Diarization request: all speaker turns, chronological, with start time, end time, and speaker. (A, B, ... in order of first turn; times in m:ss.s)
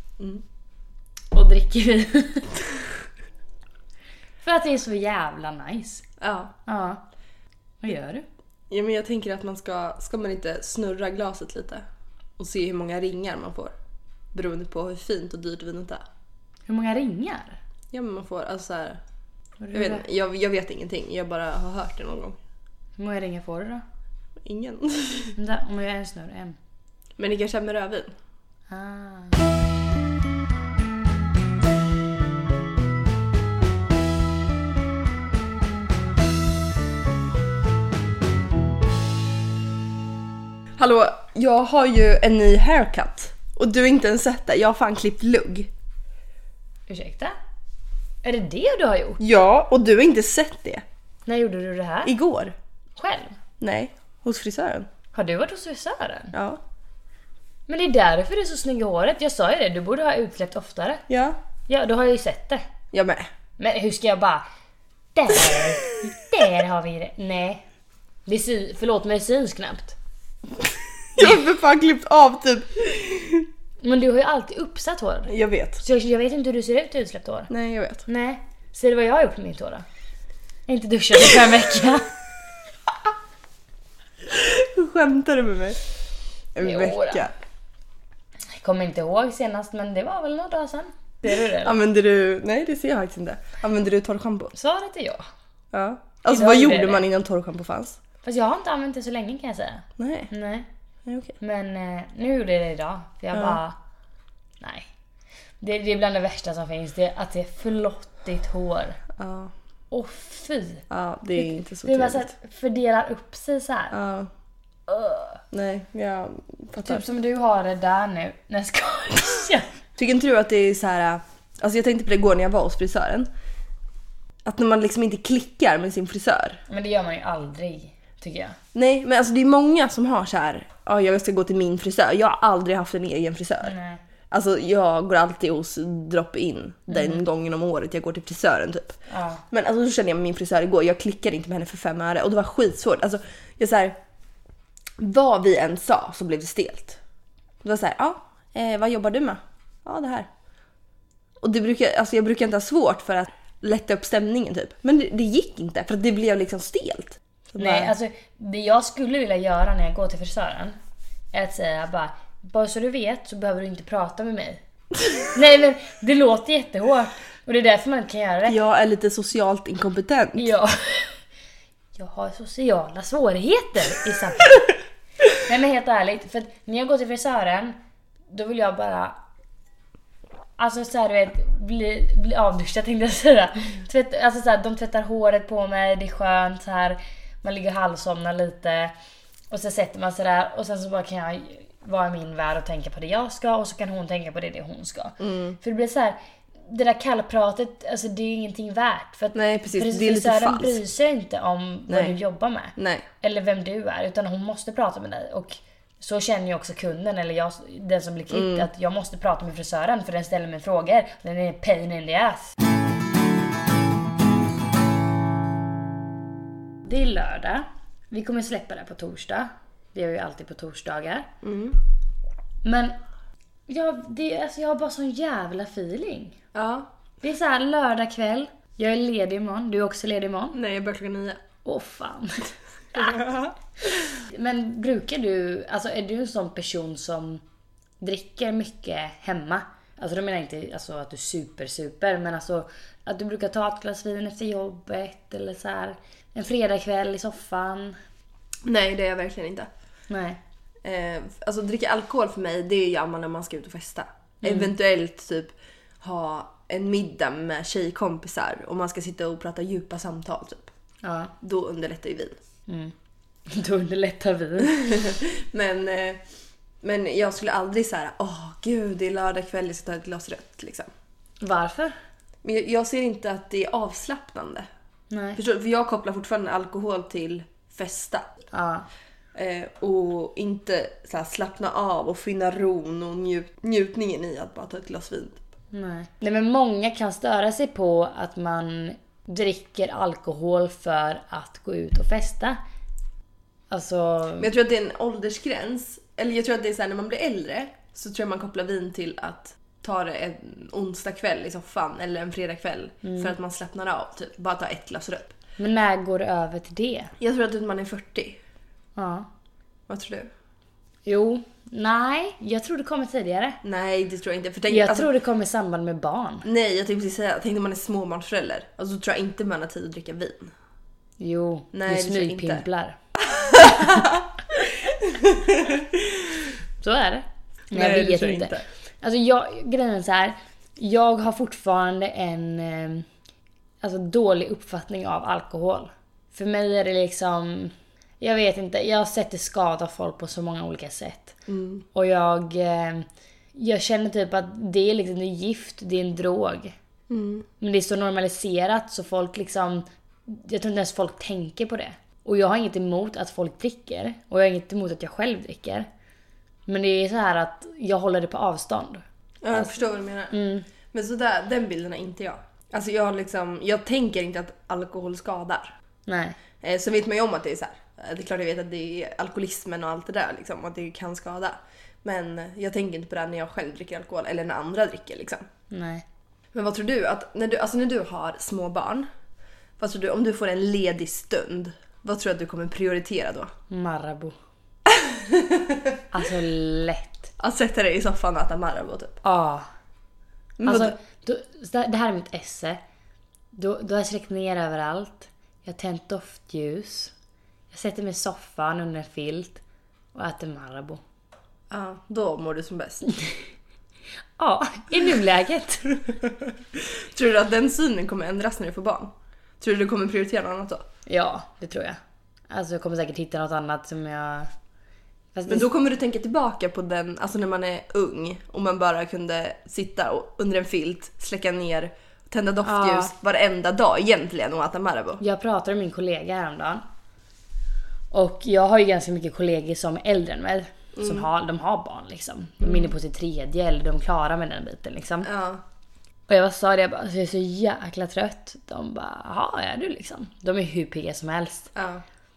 0:01.3-0:02.6 A
0:04.4-0:06.0 A
0:06.2-0:06.5 B
0:06.7-0:07.0 A
0:07.8-0:08.2 A
0:08.7-0:11.8 B
0:12.4-0:13.7 B
0:14.3-0:16.0 B
0:16.7-0:17.6 A
0:17.9-0:19.0 B
0:19.6-0:20.0 A
0:19.7-0:22.4 B
0:23.0-0:23.8 A
0:24.4-0:25.4 B
0:25.4-0:26.6 A
0:27.2-0:28.1 B
0:28.7-0:29.4 A
0:40.8-0:45.7 B
0:46.9-0:47.4 A
0:48.2-0:49.2 A
0:49.2-0:50.8 B
0:51.3-0:52.1 A
0:52.0-0:52.6 B
0:53.0-0:53.4 A
0:53.6-0:54.9 B
0:55.1-0:56.3 A
0:56.3-0:56.6 B
0:57.7-1:01.0 A
1:01.1-1:01.4 B
1:01.7-1:02.6 A
1:02.9-1:03.3 B
1:03.6-1:04.4 A
1:05.2-1:07.6 A
1:08.3-1:10.0 A
1:11.1-1:13.5 B
1:13.8-1:17.5 A
1:15.3-1:15.8 B
1:17.5-1:18.0 B
1:18.1-1:19.8 A
1:20.7-1:22.1 A
1:24.2-1:25.8 B
1:26.6-1:27.3 B
1:26.6-1:27.3 A
1:28.6-1:31.8 A
1:31.4-1:34.5 B
1:34.6-1:35.2 A
1:35.7-1:38.0 B
1:36.3-1:37.0 A
1:38.2-1:40.7 A
1:40.0-1:40.3 B
1:41.1-1:41.4 B
1:41.4-1:43.8 A
1:43.3-1:43.6 B
1:44.6-1:44.9 A
1:45.6-1:49.0 A
1:49.2-1:49.5 B
1:49.9-1:54.0 A
1:50.9-1:52.3 B
1:53.9-1:54.3 B
1:54.9-1:55.4 A
1:55.5-1:57.0 B
1:56.8-1:59.7 A
2:00.0-2:03.3 B
2:04.4-2:06.6 B
2:06.7-2:08.6 A
2:08.7-2:13.7 B
2:13.6-2:14.0 A
2:14.3-2:19.0 B
2:16.9-2:17.2 A
2:19.1-2:19.4 A
2:19.5-2:24.0 B
2:25.0-2:27.0 B
2:27.6-2:30.3 B
2:31.4-2:37.9 B
2:37.6-2:40.8 A
2:41.3-2:44.6 A
2:45.2-2:48.6 A
2:48.5-2:50.5 B
2:50.4-2:51.2 A
2:52.0-2:54.7 A
2:55.3-2:57.8 A
2:58.3-2:59.2 A
3:00.6-3:08.9 A
3:09.5-3:32.6 A
3:15.2-3:15.6 B
3:19.3-3:20.8 B
3:21.9-3:22.1 B
3:22.8-3:23.1 B
3:28.3-3:28.7 B
3:36.8-3:41.3 A
3:41.4-3:41.8 B
3:42.6-3:43.0 A
3:43.7-3:46.4 A
3:46.5-3:46.9 B
3:47.2-3:50.6 A
3:50.5-3:51.4 B
3:51.6-3:53.5 A
3:53.0-3:53.4 B
3:54.2-3:57.4 A
3:58.0-4:08.0 A
4:08.6-4:09.7 B
4:10.1-4:10.4 A
4:10.8-4:20.7 B
4:14.4-4:14.7 A
4:21.0-4:21.3 A
4:21.4-4:22.4 B
4:22.7-4:22.9 A
4:23.5-4:25.2 A
4:24.8-4:26.2 B
4:26.8-4:30.9 B
4:31.4-4:32.0 A
4:32.4-4:34.7 B
4:35.1-4:35.4 A
4:35.4-4:38.3 B
4:38.5-4:38.9 A
4:39.4-4:45.4 B
4:45.7-4:52.6 A
4:53.7-4:54.5 A
4:54.4-5:05.4 B
5:03.0-5:03.3 A
5:05.6-5:07.1 A
5:07.2-5:08.4 B
5:09.0-5:09.3 A
5:09.9-5:10.3 B
5:11.1-5:13.6 A
5:13.6-5:15.1 B
5:14.7-5:16.5 A
5:16.4-5:20.5 B
5:21.2-5:23.0 A
5:21.7-5:22.6 B
5:23.2-5:26.5 B
5:23.5-5:24.1 A
5:26.8-5:33.1 A
5:27.7-5:28.6 B
5:33.8-5:41.4 A
5:41.5-5:41.8 B
5:41.9-5:46.8 A
5:47.1-5:47.5 B
5:47.6-5:55.9 A
5:56.7-5:59.7 A
5:59.4-6:00.4 B
6:00.3-6:00.7 A
6:00.9-6:05.8 B
6:06.1-6:06.4 A
6:06.6-6:15.4 B
6:15.7-6:16.0 A
6:16.5-6:19.1 B
6:19.8-6:23.5 B
6:23.7-6:24.4 A
6:24.9-6:26.0 B
6:26.1-6:27.3 A
6:27.4-6:29.2 B
6:29.2-6:29.7 A
6:30.6-6:31.0 B
6:30.7-6:32.8 A
6:33.5-6:37.1 A
6:37.7-6:39.6 A
6:40.1-6:41.0 A
6:41.7-6:43.0 B
6:44.4-6:46.0 A
6:46.7-6:50.9 B
6:51.1-6:52.0 A
6:52.5-6:54.5 A
6:55.4-6:55.7 A
6:55.5-7:05.2 B
7:02.6-7:03.1 A
7:05.2-7:06.8 A
7:08.1-7:15.3 A
7:11.0-7:11.3 B
7:12.6-7:12.9 B
7:15.2-7:15.6 B
7:16.3-7:21.7 A
7:21.8-7:22.0 B